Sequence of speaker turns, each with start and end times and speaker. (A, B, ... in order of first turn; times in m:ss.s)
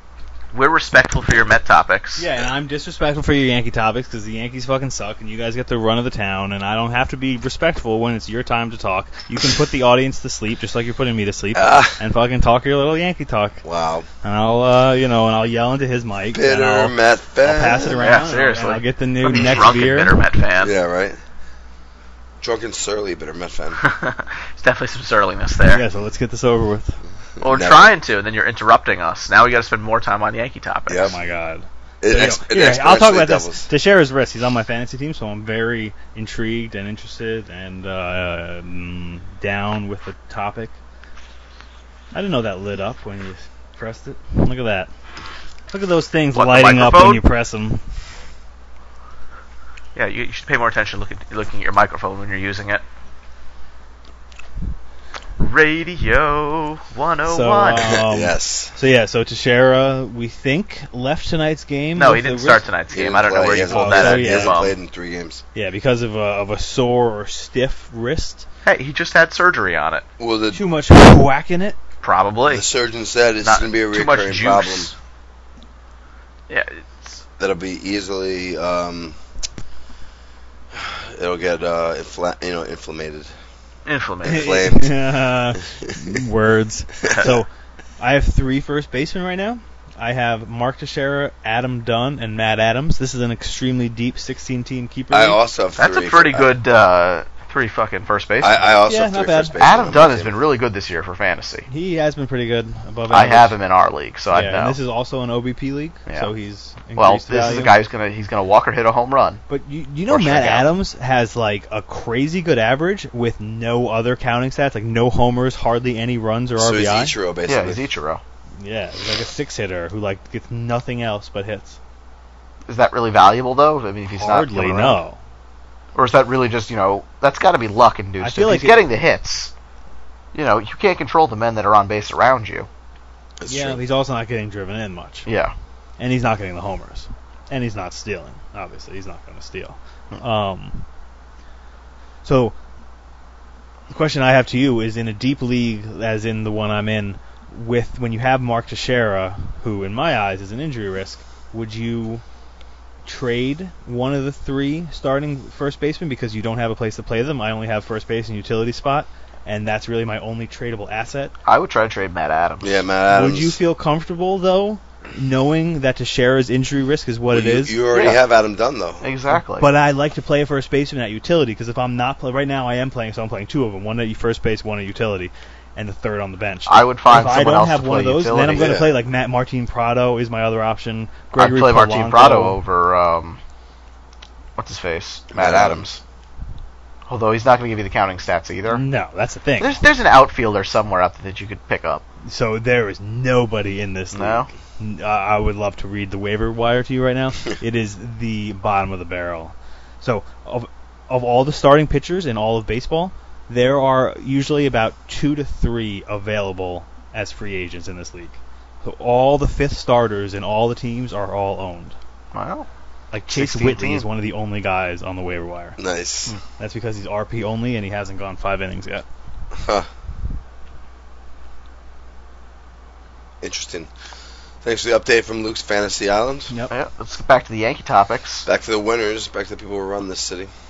0:00.5-0:02.2 A
0:02.2-0:13.6 B
0:11.5-0:12.0 C
0:13.6-0:14.1 C
0:14.2-0:20.2 B
0:16.3-0:18.0 C
0:17.9-0:20.7 A
0:20.6-0:21.2 C
0:22.4-0:23.8 C
0:23.8-0:25.8 A
0:25.7-0:27.0 B
0:27.4-0:27.9 C
0:27.4-0:31.2 A
0:30.9-0:31.1 C
0:31.0-0:40.7 B
0:32.0-0:33.7 C
0:42.1-0:44.9 B
0:45.7-0:47.8 B
0:46.3-0:47.2 A
0:49.9-0:52.8 A
0:55.4-0:57.9 A
0:57.3-1:02.6 B
0:57.8-0:58.7 C
1:02.0-1:04.7 A
1:02.9-1:05.4 C
1:03.7-1:04.7 B
1:05.5-1:08.4 B
1:08.6-1:10.0 A
1:10.2-1:10.6 C
1:10.5-1:11.8 B
1:12.0-1:12.6 A
1:12.5-1:14.9 C
1:13.4-1:14.9 A
1:16.5-1:17.2 A
1:17.4-1:19.2 C
1:20.7-1:23.3 C
1:23.8-1:24.6 A
1:24.2-1:35.4 B
1:24.2-1:24.9 C
1:35.1-1:36.5 C
1:35.8-1:38.7 A
1:38.4-1:40.3 C
1:38.8-1:39.6 B
1:39.6-1:41.7 A
1:41.7-1:43.5 B
1:43.1-1:44.8 A
1:44.3-1:47.8 B
1:47.0-1:49.4 A
1:49.5-1:57.1 B
1:50.1-1:50.7 A
1:56.6-1:57.8 C
1:57.5-1:58.2 A
1:58.6-2:01.8 B
2:02.7-2:05.0 A
2:04.1-2:05.2 B
2:05.9-2:09.5 A
2:08.2-2:08.8 B
2:10.3-2:12.7 A
2:13.4-2:13.8 C
2:13.5-2:15.2 B
2:15.2-2:15.5 A
2:16.0-2:20.8 B
2:22.2-2:22.5 B
2:23.9-2:32.2 B
2:33.0-2:41.3 B
2:41.4-2:42.8 A
2:42.6-2:43.6 C
2:43.1-2:47.8 B
2:47.3-2:49.0 C
2:47.9-2:48.2 A
2:49.0-2:49.7 A
2:49.3-3:02.6 B
2:56.6-2:58.7 A
2:58.5-2:58.9 C
3:01.3-3:03.4 A
3:04.6-3:06.0 A
3:05.3-3:05.8 C
3:07.1-3:08.8 A
3:08.7-3:09.8 B
3:09.6-3:12.0 A
3:12.2-3:32.0 B
3:14.1-3:14.5 A
3:32.3-3:32.7 A
3:33.1-3:35.8 B
3:33.3-3:34.1 A
3:35.8-3:36.4 C
3:36.6-3:39.0 B
3:39.5-3:39.9 C
3:43.4-3:43.9 C
3:44.6-3:46.5 C
3:46.7-3:48.5 A
3:48.4-3:50.5 C